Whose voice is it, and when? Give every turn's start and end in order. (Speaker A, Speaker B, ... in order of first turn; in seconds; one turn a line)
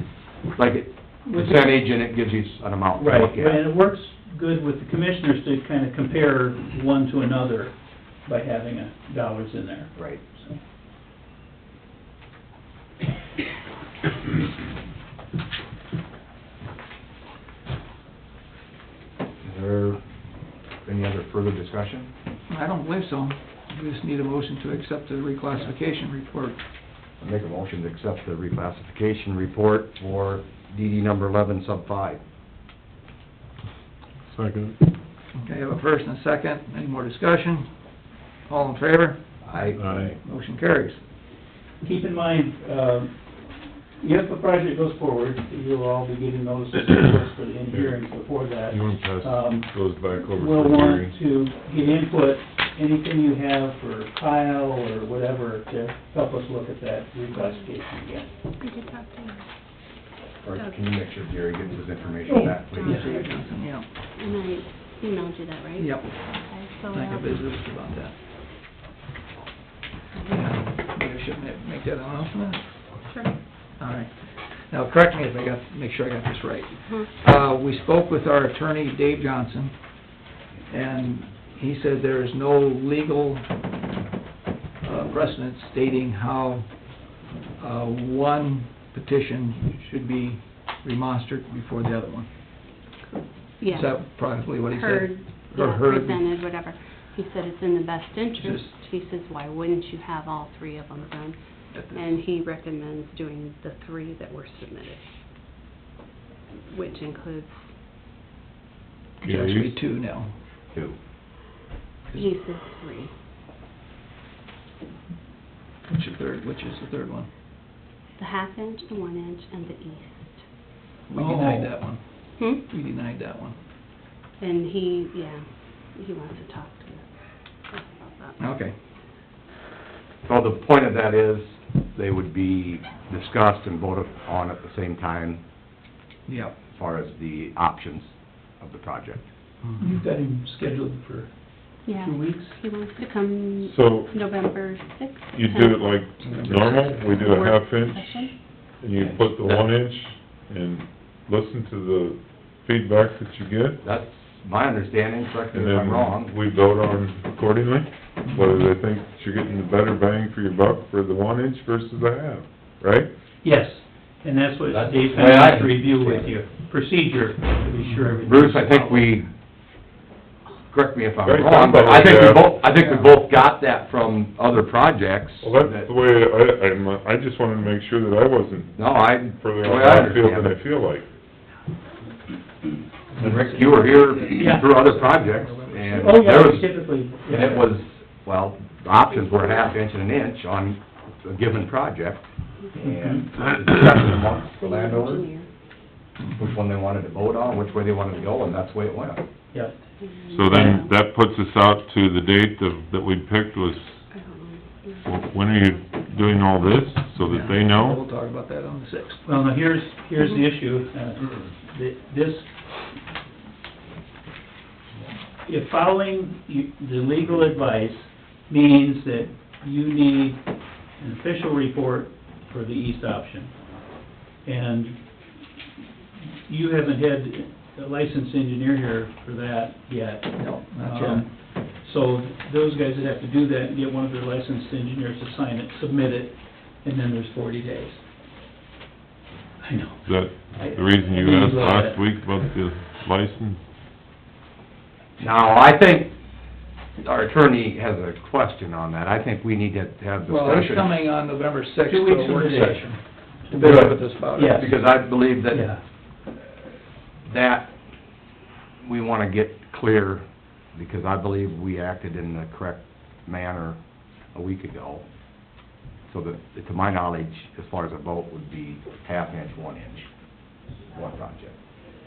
Speaker A: 0.6-3.6
Speaker B: 1.3-1.7
Speaker B: 3.0-10.6
Speaker A: 9.9-10.2
Speaker A: 19.4-20.0
Speaker A: 20.9-22.1
Speaker C: 22.5-26.6
Speaker A: 27.2-32.2
Speaker D: 34.3-34.8
Speaker C: 35.3-39.6
Speaker A: 39.4-40.2
Speaker D: 39.8-40.2
Speaker C: 40.2-41.0
Speaker B: 41.8-58.3
Speaker D: 48.7-51.1
Speaker E: 58.6-59.5
Speaker A: 60.4-63.1
Speaker E: 60.5-63.6
Speaker B: 62.3-63.2
Speaker C: 62.9-63.9
Speaker E: 64.2-67.4
Speaker C: 65.8-68.2
Speaker E: 70.2-70.5
Speaker C: 70.3-72.9
Speaker E: 73.1-73.3
Speaker C: 73.8-79.7
Speaker C: 80.7-83.5
Speaker C: 84.8-86.8
Speaker C: 87.6-92.3
Speaker E: 93.0-101.4
Speaker C: 93.7-96.4
Speaker C: 98.4-98.8
Speaker C: 101.7-102.1
Speaker E: 101.9-105.0
Speaker E: 106.7-107.6
Speaker D: 109.2-109.8
Speaker C: 109.2-110.3
Speaker E: 112.1-113.1
Speaker C: 115.9-117.3
Speaker E: 118.2-120.4
Speaker C: 121.1-123.6
Speaker B: 121.2-121.7
Speaker E: 122.4-122.6
Speaker E: 124.4-128.4
Speaker C: 128.4-128.7
Speaker A: 130.2-135.4
Speaker C: 136.3-136.6
Speaker A: 136.7-139.3
Speaker B: 139.8-141.3
Speaker E: 141.8-148.3
Speaker B: 141.9-142.6
Speaker D: 143.6-144.2
Speaker D: 145.3-153.8
Speaker C: 146.2-147.2
Speaker A: 149.0-149.7
Speaker A: 153.8-156.3
Speaker D: 155.5-163.1
Speaker C: 158.2-158.6
Speaker B: 163.4-169.1
Speaker A: 164.7-166.3
Speaker A: 168.2-169.3
Speaker A: 170.7-175.9
Speaker D: 171.2-172.6
Speaker D: 175.4-181.1
Speaker A: 178.8-180.6
Speaker C: 183.2-186.2
Speaker A: 183.2-195.3
Speaker B: 184.4-184.7
Speaker B: 186.0-187.7
Speaker E: 189.2-189.5
Speaker B: 192.8-193.2
Speaker E: 194.5-195.5
Speaker A: 196.3-199.2
Speaker E: 200.0-200.9
Speaker D: 200.3-204.0
Speaker B: 200.5-200.8
Speaker E: 204.1-206.1
Speaker D: 205.1-208.0
Speaker C: 207.1-209.2
Speaker B: 209.2-212.5
Speaker B: 215.4-220.4
Speaker B: 221.0-223.5
Speaker B: 224.4-225.0
Speaker B: 226.5-238.0
Speaker C: 230.4-231.3
Speaker B: 239.6-242.1
Speaker D: 240.1-243.6
Speaker A: 245.2-246.2
Speaker A: 247.0-251.0
Speaker C: 250.2-254.7
Speaker B: 251.8-252.9
Speaker B: 253.4-254.7
Speaker A: 253.6-255.7
Speaker B: 255.5-255.8
Speaker A: 257.3-257.7
Speaker A: 258.8-263.8
Speaker A: 264.3-265.1
Speaker A: 266.1-270.1
Speaker A: 270.9-271.6